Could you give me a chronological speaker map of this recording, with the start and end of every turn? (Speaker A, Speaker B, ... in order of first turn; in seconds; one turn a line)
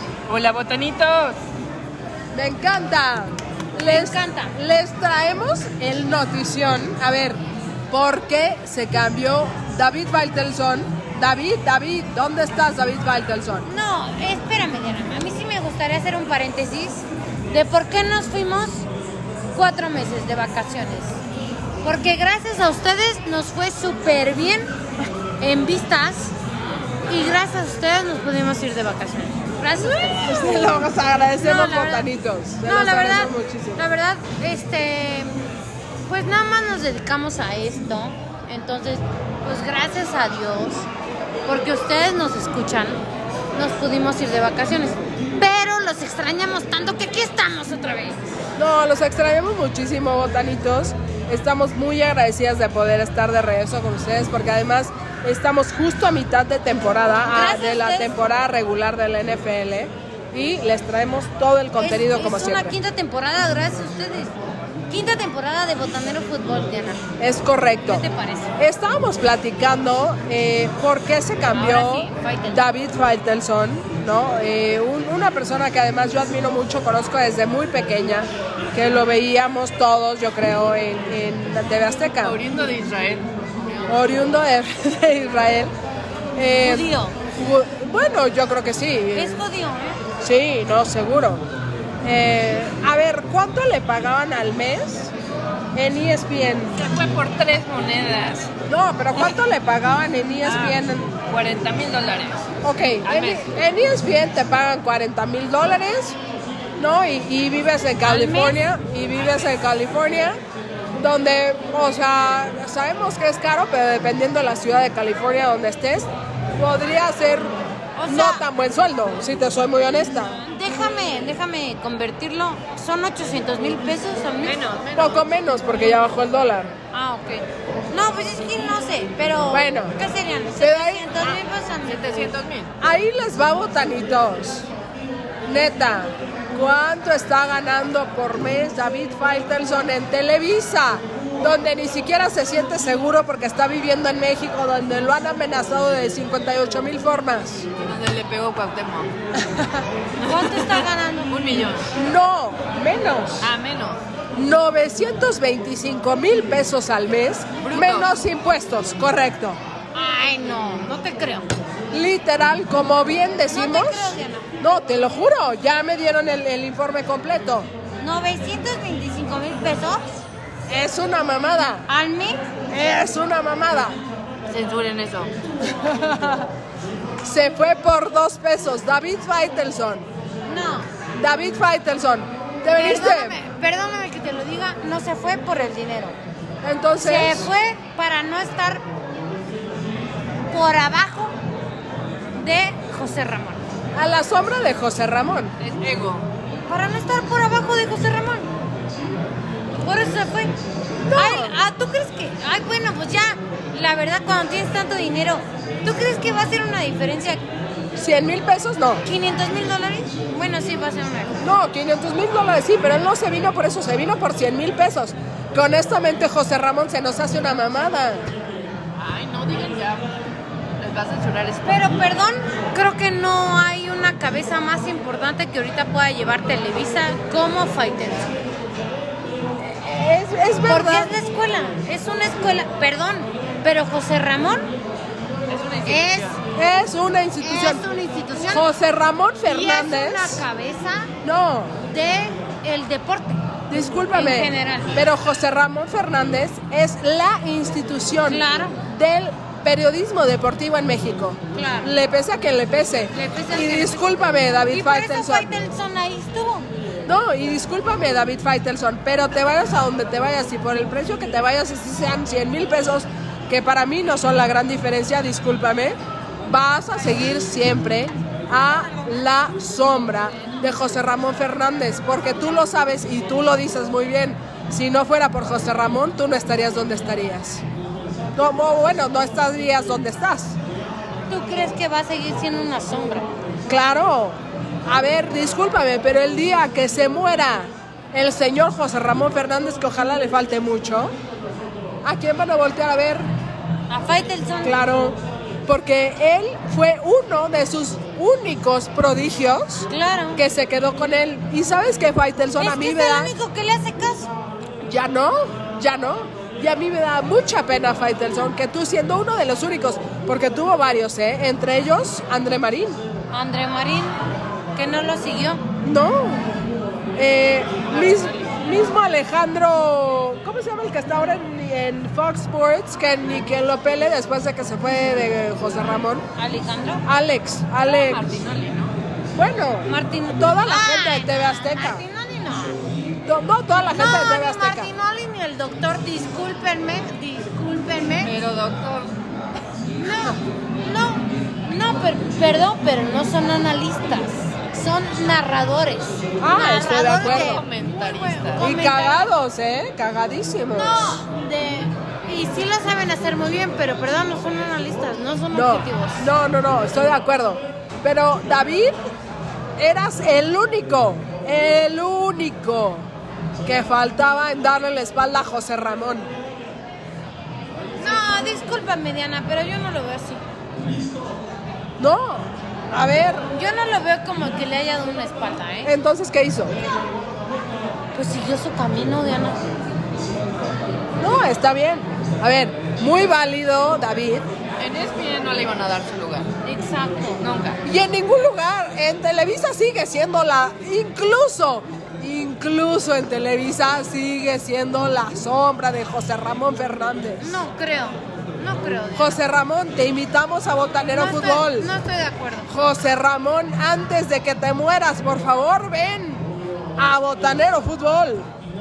Speaker A: 0.3-1.4
Speaker B: 2.3-13.7
Speaker C: 3.8-4.6
Speaker C: 13.6-18.9
Speaker C: 19.5-21.2
Speaker C: 21.8-24.7
Speaker C: 25.4-26.4
Speaker C: 27.1-30.8
Speaker B: 30.1-33.9
Speaker C: 31.4-32.1
Speaker C: 32.6-35.4
Speaker C: 36.0-40.9
Speaker C: 41.5-43.0
Speaker C: 43.5-48.3
Speaker B: 48.6-62.8
Speaker C: 57.3-58.2
Speaker C: 61.8-64.4
Speaker C: 64.9-67.0
Speaker B: 67.2-68.0
Speaker C: 67.9-68.5
Speaker B: 68.6-82.4
Speaker C: 71.5-72.7
Speaker A: 82.2-83.9
Speaker B: 83.9-85.7
Speaker B: 86.4-89.4
Speaker C: 86.6-87.2
Speaker C: 89.1-90.0
Speaker B: 90.2-91.4
Speaker B: 92.0-95.1
Speaker B: 95.8-96.8
Speaker A: 96.8-98.5
Speaker B: 98.7-101.2
Speaker A: 100.4-102.4
Speaker B: 102.6-106.2
Speaker A: 103.0-103.5
Speaker B: 106.8-110.4
Speaker C: 108.1-108.6
Speaker B: 111.0-120.4
Speaker C: 118.0-118.5
Speaker C: 120.4-124.7
Speaker A: 124.4-125.2
Speaker B: 125.0-126.7
Speaker C: 126.9-132.2
Speaker B: 129.5-130.0
Speaker B: 130.6-131.4
Speaker A: 131.9-132.7
Speaker B: 132.8-134.7
Speaker B: 135.5-147.7
Speaker A: 147.8-149.1
Speaker B: 149.3-149.8
Speaker A: 150.2-151.9
Speaker C: 150.2-151.6
Speaker B: 151.9-153.5
Speaker A: 153.4-154.0
Speaker B: 154.3-159.6
Speaker A: 157.6-158.2
Speaker C: 159.9-161.5
Speaker B: 161.9-167.7
Speaker C: 163.5-164.6
Speaker C: 168.0-170.2
Speaker B: 170.7-171.9
Speaker C: 171.9-172.5
Speaker B: 172.7-174.0
Speaker A: 174.5-175.3
Speaker B: 175.7-176.4
Speaker B: 177.2-180.1
Speaker C: 180.4-180.9
Speaker B: 181.2-183.4
Speaker C: 182.7-186.2
Speaker B: 186.6-187.5
Speaker C: 187.0-188.8
Speaker C: 190.5-191.4
Speaker C: 192.3-193.6
Speaker B: 193.9-195.6
Speaker A: 195.6-196.3
Speaker C: 196.7-198.5
Speaker C: 199.7-200.5
Speaker B: 201.0-201.6
Speaker C: 201.1-207.4
Speaker B: 207.9-209.1
Speaker C: 209.0-211.4
Speaker B: 211.4-218.3
Speaker A: 218.9-220.1
Speaker A: 220.8-222.0
Speaker C: 221.6-228.3
Speaker B: 229.6-231.1
Speaker C: 230.6-234.7
Speaker A: 235.5-236.4
Speaker C: 235.8-236.4
Speaker B: 236.5-237.8
Speaker C: 237.4-238.7
Speaker B: 238.5-240.4
Speaker C: 239.5-241.1
Speaker B: 241.2-241.8
Speaker C: 241.8-243.4
Speaker B: 243.7-255.5
Speaker C: 244.1-245.0
Speaker C: 248.3-248.8
Speaker C: 251.5-251.9
Speaker C: 253.1-256.7
Speaker B: 257.1-277.6
Speaker B: 278.4-280.6
Speaker C: 281.3-283.3
Speaker B: 283.7-291.1
Speaker B: 292.0-293.3
Speaker C: 293.9-294.8
Speaker B: 294.6-303.3
Speaker C: 299.9-300.4
Speaker C: 302.6-304.3
Speaker B: 304.8-313.0
Speaker C: 313.3-314.2
Speaker C: 314.7-315.6
Speaker B: 315.8-316.5
Speaker B: 317.2-326.2
Speaker A: 317.9-318.7
Speaker C: 326.4-327.1
Speaker B: 327.0-328.3
Speaker A: 327.8-328.9
Speaker B: 329.4-332.1
Speaker C: 329.9-332.8
Speaker B: 333.2-334.9
Speaker C: 333.9-338.3
Speaker A: 338.2-339.2
Speaker C: 340.0-349.3
Speaker B: 346.4-347.6
Speaker A: 347.0-348.7
Speaker B: 348.6-351.2
Speaker C: 350.7-356.3
Speaker B: 355.5-358.9
Speaker B: 359.8-363.1
Speaker B: 363.6-366.3
Speaker C: 368.0-370.4
Speaker B: 372.0-373.5
Speaker C: 373.5-375.9
Speaker B: 375.9-376.8
Speaker C: 378.1-379.6
Speaker B: 381.2-384.5
Speaker A: 384.8-386.5
Speaker C: 386.6-387.4
Speaker A: 387.4-387.8
Speaker B: 387.8-397.6
Speaker C: 397.4-399.4
Speaker B: 399.2-401.9
Speaker C: 401.1-402.7
Speaker B: 402.7-406.5
Speaker B: 407.0-408.5